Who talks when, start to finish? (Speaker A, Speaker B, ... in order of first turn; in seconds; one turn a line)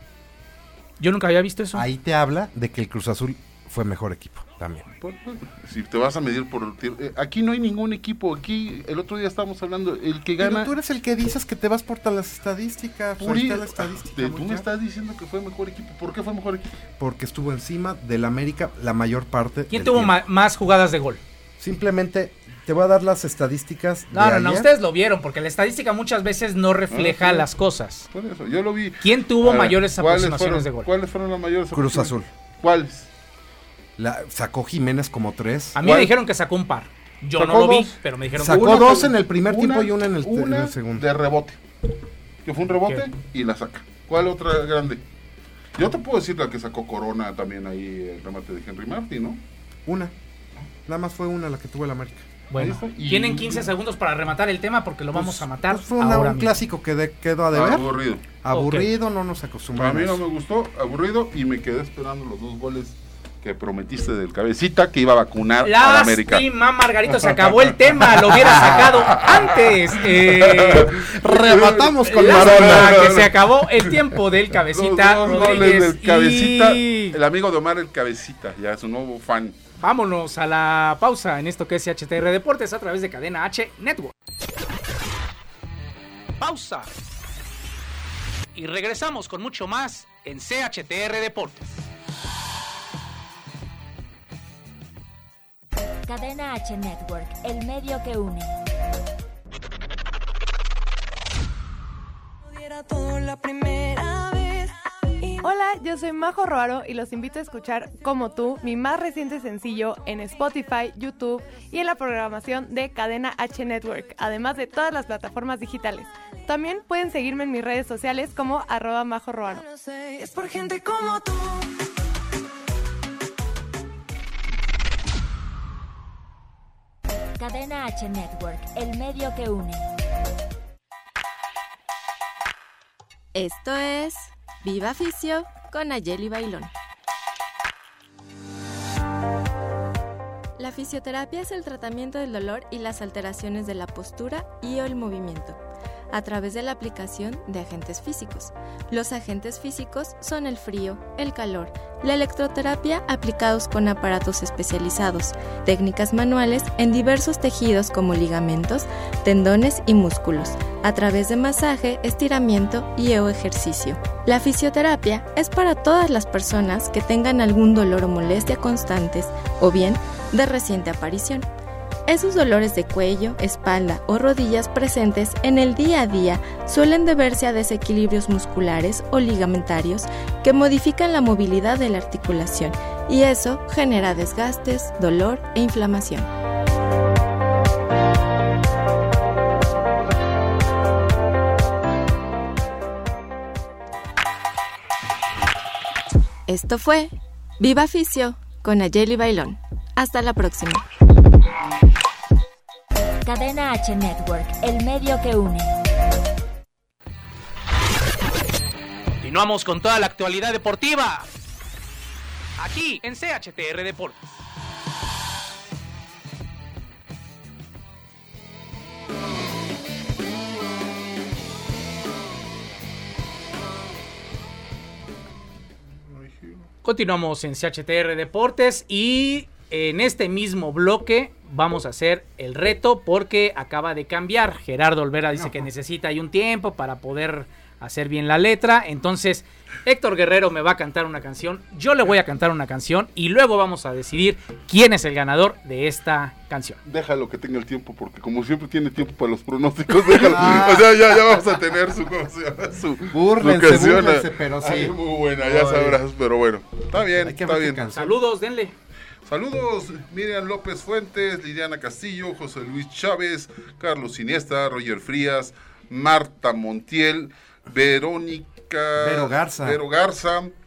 Speaker A: 1.0-1.9
Speaker B: 1.7-4.9
Speaker C: 5.0-10.7
Speaker B: 10.4-14.7
Speaker C: 13.2-16.7
Speaker B: 17.0-20.2
Speaker A: 19.7-21.2
Speaker B: 21.6-24.7
Speaker A: 24.1-28.1
Speaker C: 26.9-27.5
Speaker C: 28.1-33.1
Speaker A: 29.0-30.9
Speaker B: 31.7-32.3
Speaker B: 34.0-35.8
Speaker A: 35.8-38.8
Speaker C: 35.8-36.1
Speaker C: 37.4-41.6
Speaker B: 38.4-41.0
Speaker C: 42.4-45.0
Speaker C: 45.8-49.4
Speaker B: 49.9-50.1
Speaker B: 50.9-52.2
Speaker A: 52.5-56.5
Speaker C: 52.5-53.7
Speaker B: 55.2-57.9
Speaker C: 57.5-58.2
Speaker B: 58.4-60.2
Speaker A: 58.5-58.9
Speaker C: 59.8-66.5
Speaker A: 65.6-71.0
Speaker C: 67.1-73.5
Speaker B: 70.9-73.2
Speaker A: 72.1-77.2
Speaker C: 74.6-79.5
Speaker A: 79.8-84.1
Speaker A: 86.4-86.9
Speaker A: 88.5-91.8
Speaker D: 96.0-98.5
Speaker E: 102.7-104.7
Speaker F: 105.4-119.6
Speaker E: 119.6-121.7
Speaker D: 127.4-129.9
Speaker G: 133.3-136.7
Speaker G: 140.6-145.6
Speaker G: 146.1-171.5
Speaker G: 172.1-186.3
Speaker G: 196.5-200.8
Speaker D: 203.2-205.7
Speaker A: 209.1-211.3
Speaker A: 212.6-214.2
Speaker C: 226.1-226.7
Speaker A: 226.8-246.8
Speaker B: 235.3-235.6
Speaker C: 246.8-257.8
Speaker B: 250.2-250.9
Speaker B: 253.1-256.0
Speaker B: 257.0-258.2
Speaker A: 257.9-258.7
Speaker C: 259.2-270.5
Speaker B: 269.0-269.8